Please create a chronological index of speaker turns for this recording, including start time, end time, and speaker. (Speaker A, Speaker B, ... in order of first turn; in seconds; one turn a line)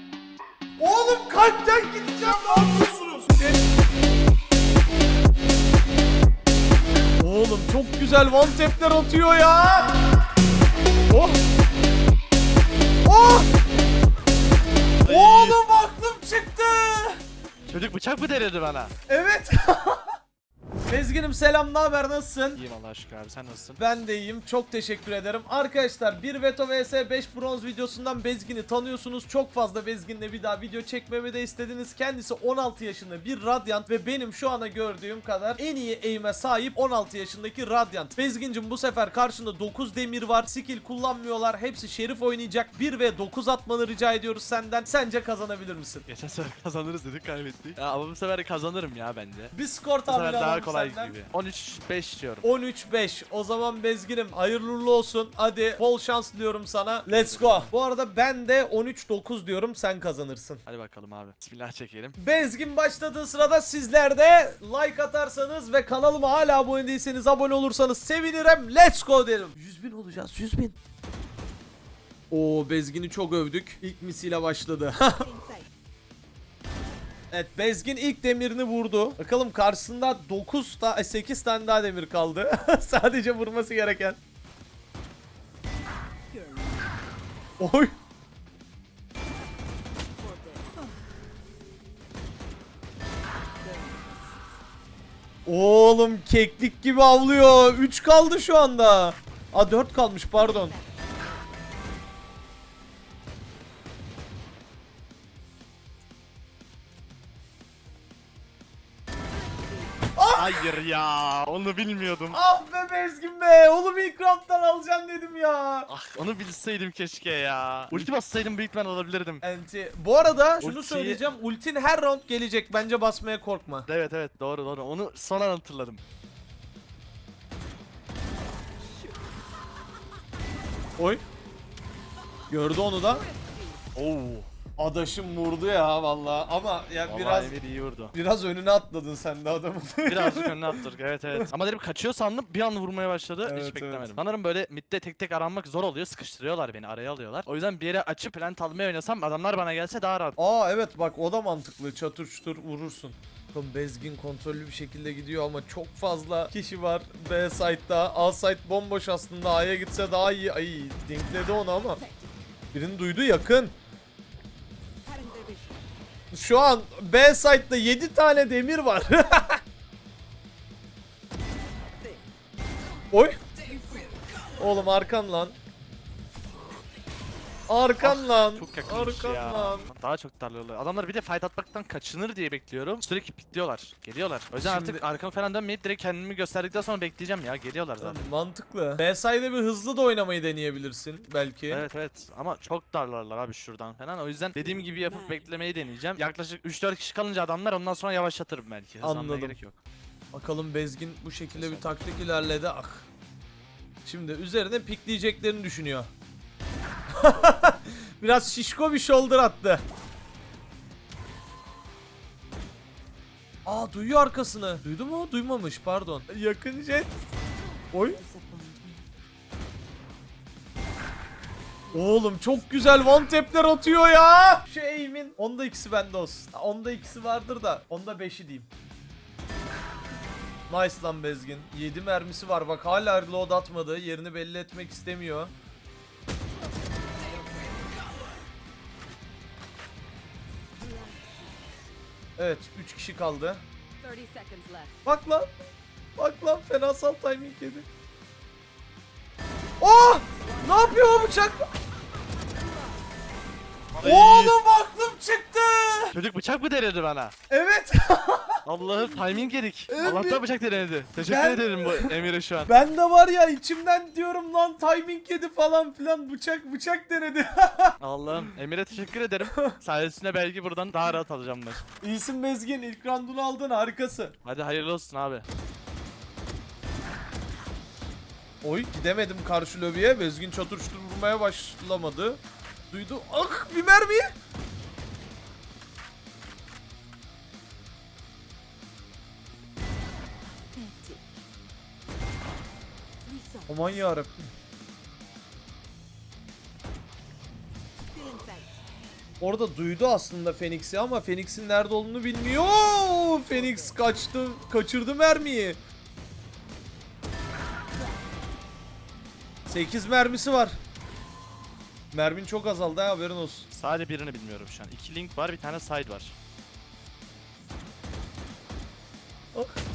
Speaker A: 0.8-3.6
Speaker A: 7.2-10.2
Speaker A: 11.1-11.4
Speaker A: 13.1-13.5
Speaker B: 15.0-15.6
Speaker A: 15.1-17.2
Speaker B: 17.7-18.9
Speaker A: 19.1-20.1
Speaker A: 20.9-22.6
Speaker B: 22.5-23.8
Speaker A: 23.8-46.1
Speaker B: 46.1-52.5
Speaker A: 49.5-51.2
Speaker A: 52.4-60.6
Speaker B: 57.1-57.7
Speaker B: 60.7-62.2
Speaker A: 62.2-70.8
Speaker A: 72.3-75.3
Speaker A: 77.3-84.2
Speaker C: 86.3-86.8
Speaker A: 87.6-87.9
Speaker C: 90.2-90.7
Speaker C: 93.6-94.4
Speaker A: 95.5-100.8
Speaker C: 100.4-101.4
Speaker A: 110.2-110.6
Speaker B: 110.3-112.4
Speaker A: 112.3-115.9
Speaker B: 115.9-119.4
Speaker A: 119.4-123.9
Speaker B: 120.6-121.2
Speaker B: 123.9-126.0
Speaker A: 131.0-131.2
Speaker A: 132.5-133.3
Speaker C: 133.1-133.8
Speaker B: 133.9-134.5
Speaker A: 134.8-137.6
Speaker B: 137.1-138.2
Speaker A: 138.1-141.5
Speaker B: 140.1-150.4
Speaker A: 143.4-144.1
Speaker A: 150.4-162.0
Speaker C: 162.0-162.3
Speaker A: 162.7-163.7
Speaker C: 165.1-165.8
Speaker A: 166.3-169.6
Speaker A: 173.1-173.4
Speaker C: 173.6-174.3
Speaker A: 174.6-175.6
Speaker A: 177.7-179.9
Speaker B: 178.0-188.2
Speaker A: 184.6-185.0
Speaker A: 188.0-191.8
Speaker B: 191.7-199.8
Speaker C: 195.1-195.4
Speaker A: 199.0-199.6
Speaker A: 200.3-203.1
Speaker B: 201.5-202.1
Speaker A: 204.1-206.1
Speaker A: 207.2-209.8
Speaker A: 213.7-217.1
Speaker A: 217.9-218.2
Speaker C: 217.9-219.0
Speaker A: 221.9-228.7
Speaker A: 230.7-235.5
Speaker C: 240.8-241.5
Speaker A: 242.4-243.6
Speaker C: 244.0-245.0
Speaker A: 245.1-245.5
Speaker A: 246.2-247.8
Speaker A: 249.8-251.7
Speaker C: 250.4-251.5
Speaker C: 252.6-252.9
Speaker B: 253.9-254.6
Speaker A: 254.0-256.2
Speaker B: 256.1-257.4
Speaker A: 257.5-258.6
Speaker B: 258.6-262.7
Speaker A: 259.9-260.4
Speaker A: 261.2-268.0
Speaker B: 268.0-271.8
Speaker A: 269.4-269.8
Speaker A: 272.0-274.4
Speaker B: 274.4-275.4
Speaker A: 278.6-282.4
Speaker A: 282.9-284.3
Speaker C: 290.8-291.2
Speaker C: 293.3-293.9
Speaker A: 293.7-294.5
Speaker C: 298.1-298.8
Speaker A: 299.4-305.8
Speaker C: 303.5-303.9
Speaker A: 309.7-310.8
Speaker A: 312.1-313.7
Speaker B: 313.7-316.4